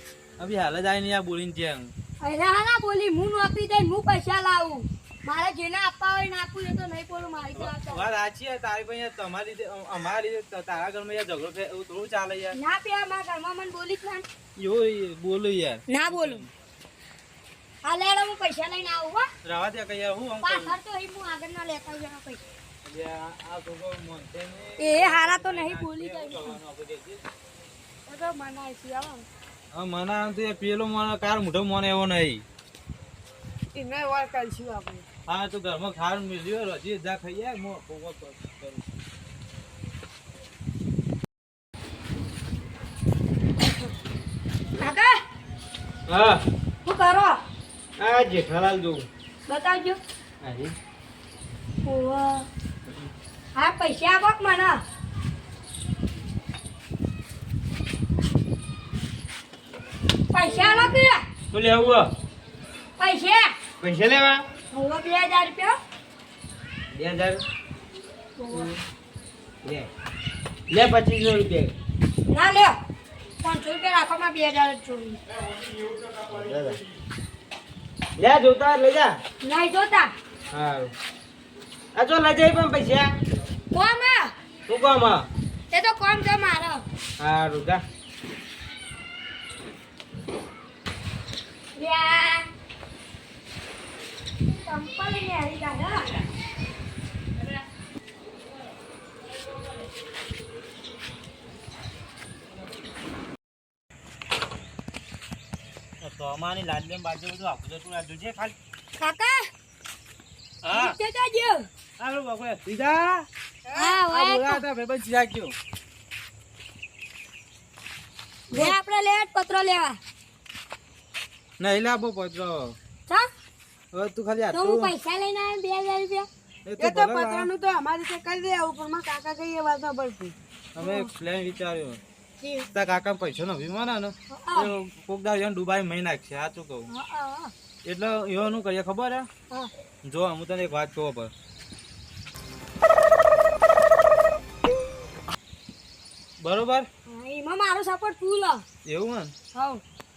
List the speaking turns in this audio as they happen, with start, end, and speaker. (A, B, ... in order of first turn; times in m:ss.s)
0:00.4-0:01.9 A
0:02.2-0:08.0 B
0:07.5-0:12.6 A
0:12.5-0:14.2 B
0:14.6-0:16.5 A
0:15.9-0:16.4 B
0:17.8-0:19.2 B
0:19.4-0:20.8 A
0:20.4-0:22.4 B
0:22.8-0:27.2 A
0:24.8-0:26.6 B
0:28.1-0:29.3 C
0:29.7-0:32.4 A
0:33.7-0:35.0 C
0:35.3-0:38.8 A
0:44.8-0:45.2 B
0:46.1-0:46.4 D
0:46.8-0:47.4 B
0:48.0-0:49.1 D
0:49.5-0:50.0 B
0:50.4-0:50.7 D
0:51.8-0:52.5 B
0:53.5-0:54.8 B
1:00.3-1:01.2 B
1:01.5-1:02.1 D
1:03.0-1:03.5 B
1:03.8-1:04.4 D
1:04.7-1:05.8 B
1:06.9-1:07.4 D
1:08.4-1:08.7 B
1:09.6-1:09.9 D
1:10.7-1:11.7 D
1:12.3-1:12.8 B
1:13.4-1:15.2 B
1:16.2-1:16.8 D
1:18.2-1:19.2 D
1:19.4-1:20.1 B
1:20.5-1:20.9 D
1:21.9-1:23.1 D
1:23.7-1:24.3 B
1:24.7-1:25.3 D
1:25.7-1:26.8 B
1:27.2-1:27.8 D
1:31.7-1:32.5 B
1:34.5-1:36.2 B
1:46.0-1:48.6 A
1:49.0-1:49.5 B
1:50.6-1:51.0 A
1:50.7-1:51.7 B
1:52.0-1:53.3 A
1:53.7-1:54.0 C
1:53.7-1:54.6 B
1:54.0-1:55.5 A
1:58.5-2:00.0 B
2:01.6-2:02.8 A
2:03.9-2:04.9 A
2:04.5-2:06.3 B
2:06.6-2:07.5 A
2:06.8-2:10.3 C
2:10.8-2:12.0 A
2:10.8-2:11.1 B
2:12.7-2:16.9 A
2:14.3-2:14.7 B
2:16.9-2:17.5 B
2:17.8-2:19.3 A
2:20.0-2:21.3 A
2:26.4-2:26.9 A
2:27.1-2:28.6 B
2:28.8-2:29.3 A
2:29.5-2:29.8 B